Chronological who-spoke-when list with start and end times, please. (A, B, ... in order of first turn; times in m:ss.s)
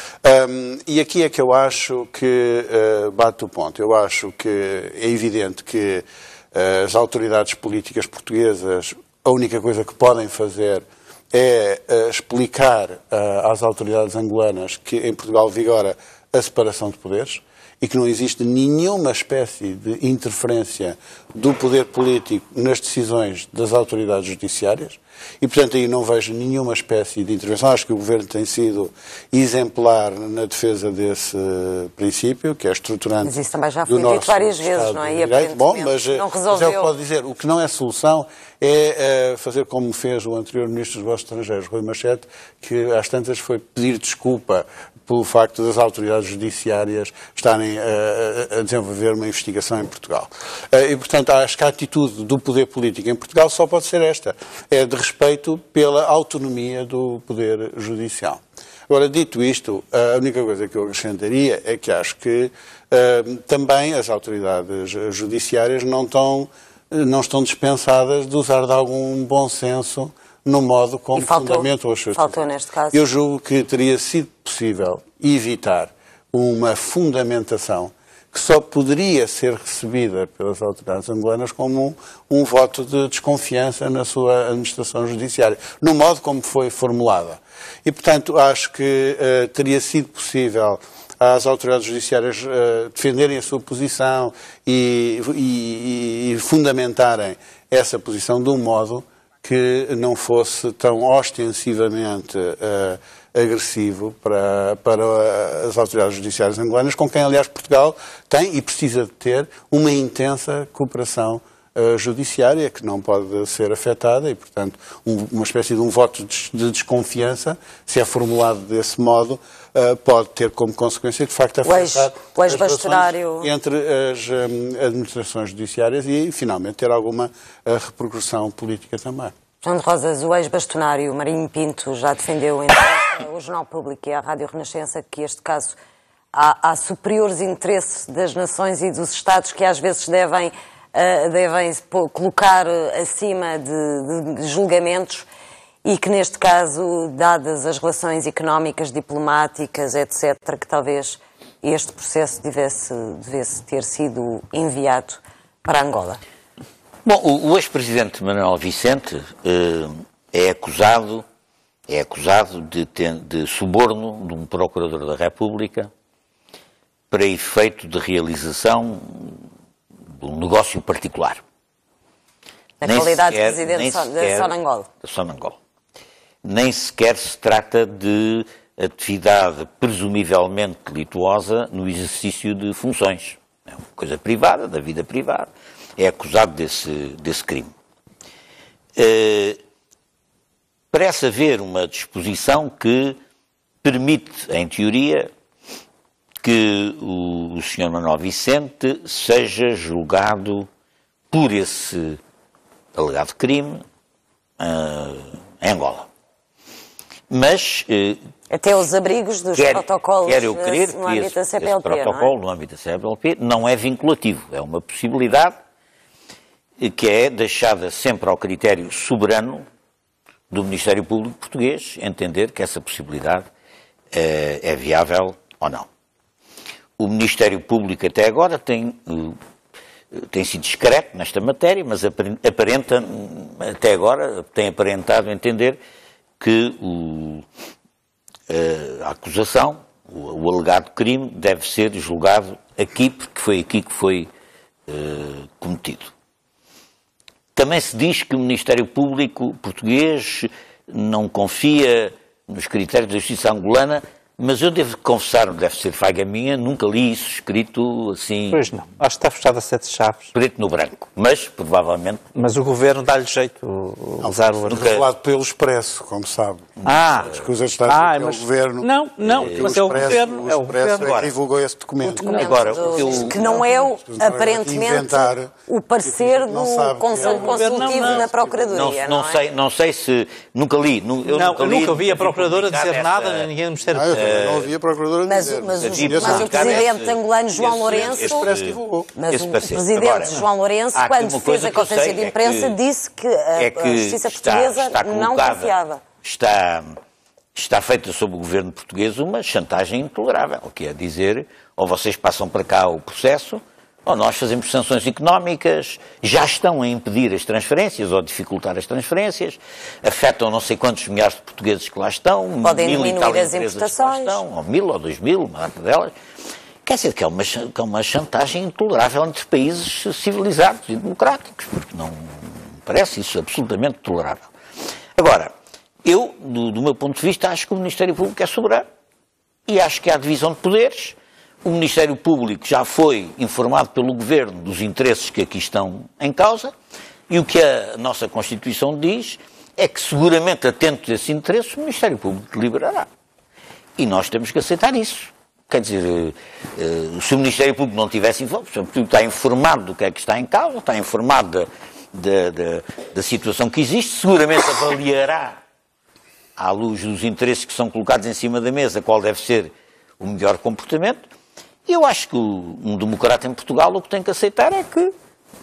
0:00.2-0:33.3 A
0:33.2-0:36.9 B
0:33.8-1:12.4 A
1:11.2-1:13.0 B
1:12.9-2:09.3 A
2:01.6-2:03.5 B
2:09.6-2:15.8 B
2:16.3-2:25.2 B
2:25.8-2:36.2 B
2:37.0-2:41.2 C
2:41.9-2:45.9 C
2:47.1-2:49.4 C
2:50.2-2:51.4 C
2:52.8-2:54.9 B
2:52.8-2:55.6 C
2:56.4-3:07.7 C
3:09.0-3:09.6 C
3:10.9-3:13.2 C
3:13.8-3:15.3 C
3:16.4-3:20.7 C
3:21.3-3:22.2 C
3:22.9-3:23.8 C
3:24.6-3:26.1 C
3:27.3-3:28.2 C
3:28.5-3:32.3 B
3:29.6-3:35.6 C
3:36.8-3:39.6 C
3:40.5-3:43.4 C
3:44.1-3:45.9 C
3:47.0-3:49.4 C
3:50.1-3:55.8 C
3:56.4-3:57.4 C
3:58.5-4:04.3 C
4:04.9-4:06.1 C
4:07.6-4:18.7 C
4:18.5-4:20.3 D
4:20.3-4:22.2 C
4:22.3-4:24.9 D
4:24.2-4:38.6 A
4:24.7-4:25.0 C
4:26.8-4:27.2 C
4:26.8-4:31.2 D
4:29.3-4:30.3 C
4:30.8-4:31.3 C
4:32.1-4:33.6 C
4:32.2-4:39.4 B
4:37.2-4:38.2 D
4:38.7-4:43.5 C
4:41.3-4:44.3 D
4:43.9-4:46.9 A
4:44.1-4:44.7 C
4:45.2-4:48.5 B
4:45.8-4:50.4 C
4:47.8-4:49.1 A
4:49.2-4:56.0 B
4:50.9-4:52.8 C
4:53.6-4:57.0 C
4:57.5-5:16.1 C
5:12.6-5:14.4 B
5:16.8-5:24.5 C
5:25.2-5:25.5 C
5:26.0-5:28.8 C
5:29.7-5:36.7 C
5:37.3-5:43.1 C
5:44.0-5:55.6 C
5:56.6-6:01.2 C
6:01.9-6:05.1 C